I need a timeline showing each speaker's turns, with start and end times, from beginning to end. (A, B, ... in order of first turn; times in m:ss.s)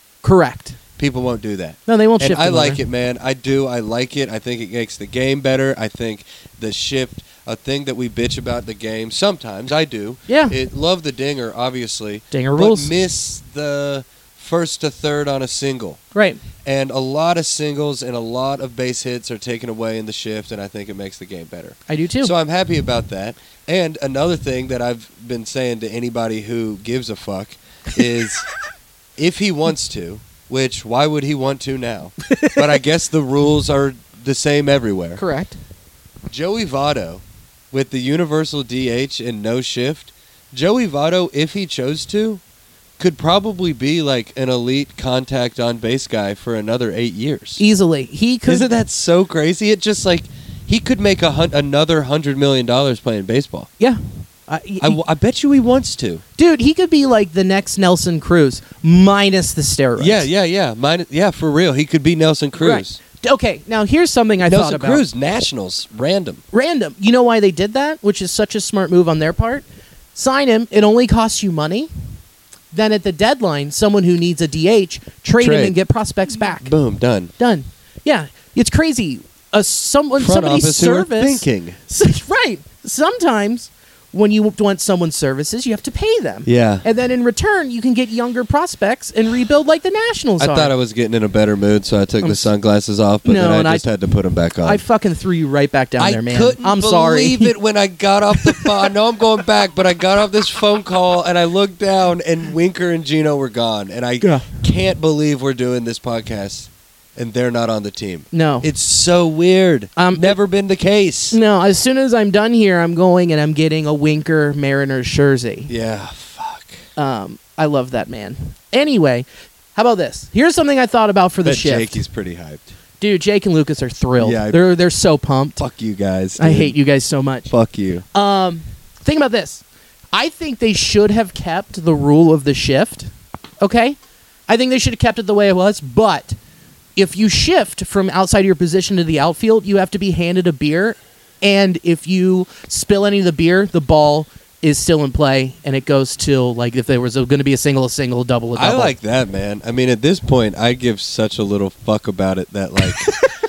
0:00.2-0:00.8 A
0:01.0-0:16.0 B
0:01.9-0:02.8 A
0:10.3-0:10.6 A
0:12.3-0:12.9 A
0:16.1-0:16.4 A
0:16.6-0:28.4 B
0:21.9-0:22.3 A
0:29.2-0:35.2 B
0:32.3-0:32.6 A
0:35.2-0:35.6 A
0:36.3-0:42.4 B
0:43.0-0:47.6 B
0:47.6-0:48.7 A
0:48.4-0:53.7 B
0:53.8-0:55.0 A
0:54.8-0:56.2 B
0:56.4-1:00.2 A
1:00.0-1:03.0 B
1:02.6-1:05.0 A
1:04.4-1:06.4 B
1:06.5-1:11.9 A
1:12.7-1:16.7 A
1:15.4-1:15.8 B
1:16.4-1:17.3 B
1:17.4-1:30.7 A
1:20.2-1:21.8 B
1:26.4-1:26.8 B
1:30.4-1:34.8 B
1:32.2-1:32.5 A
1:33.2-1:33.9 A
1:34.6-1:37.5 A
1:36.0-1:51.4 B
1:38.4-1:38.7 A
1:44.2-1:44.5 A
1:48.3-1:48.7 A
1:50.0-1:50.4 A
1:51.3-1:55.7 A
1:55.7-1:56.8 B
1:57.0-2:02.0 A
2:01.4-2:02.7 B
2:03.0-2:05.6 A
2:04.2-2:04.7 B
2:05.6-2:06.8 B
2:06.4-2:07.5 A
2:07.5-2:08.0 B
2:08.1-2:14.0 A
2:14.5-2:16.4 A
2:17.0-2:28.9 A
2:28.5-2:33.1 B
2:32.9-2:33.2 A